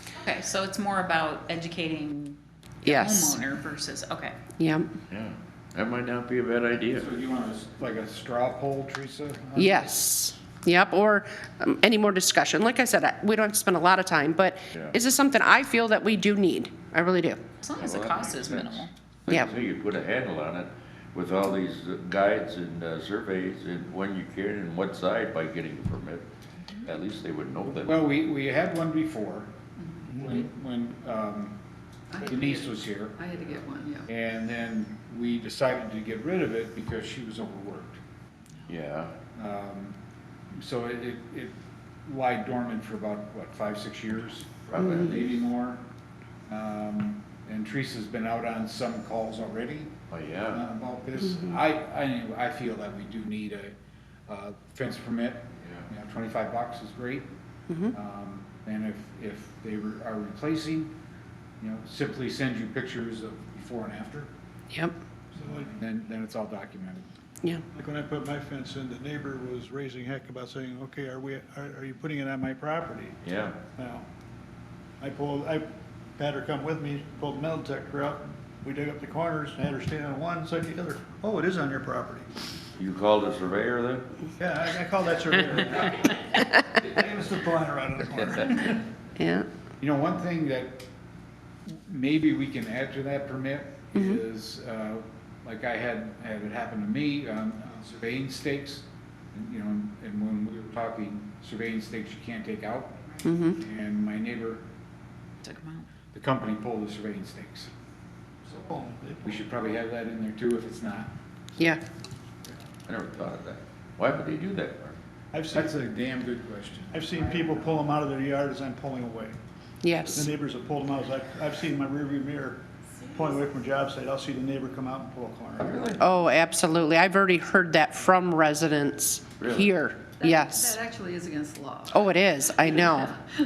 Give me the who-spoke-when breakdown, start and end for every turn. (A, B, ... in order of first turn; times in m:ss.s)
0:00.2-0:04.3 A
0:02.8-0:03.4 B
0:04.6-0:04.9 B
0:05.1-0:07.1 C
0:06.9-0:10.0 D
0:09.6-0:17.4 B
0:17.6-0:18.9 A
0:17.8-0:26.3 C
0:26.8-0:28.0 C
0:27.8-0:31.6 D
0:29.9-0:30.4 E
0:32.1-0:34.1 E
0:32.2-0:38.0 D
0:38.7-0:39.1 C
0:39.3-0:40.0 D
0:40.6-0:45.8 D
0:44.7-0:45.1 C
0:46.5-0:50.0 D
0:50.1-0:50.6 C
0:50.5-0:53.7 D
0:54.3-0:57.3 D
0:57.7-0:57.9 B
0:57.9-1:00.9 D
1:01.6-1:04.3 D
1:05.3-1:07.1 D
1:05.4-1:05.7 F
1:07.7-1:13.2 F
1:13.2-1:13.6 C
1:13.7-1:14.1 F
1:15.0-1:22.3 F
1:22.8-1:24.2 C
1:24.4-1:28.8 F
1:29.2-1:29.4 B
1:29.8-1:30.9 D
1:31.7-1:44.6 D
1:43.2-1:43.6 B
1:45.4-1:45.9 A
1:46.1-1:47.7 D
1:48.5-1:49.3 F
1:49.2-1:51.1 D
1:52.5-1:55.0 C
1:55.3-1:55.9 F
1:55.5-1:57.9 D
1:56.9-1:59.4 F
1:59.8-2:00.3 B
2:00.1-2:05.9 F
2:05.6-2:06.0 C
2:06.0-2:10.8 B
2:09.4-2:09.7 C
2:10.2-2:12.0 E
2:11.9-2:13.2 B
2:12.6-2:13.1 E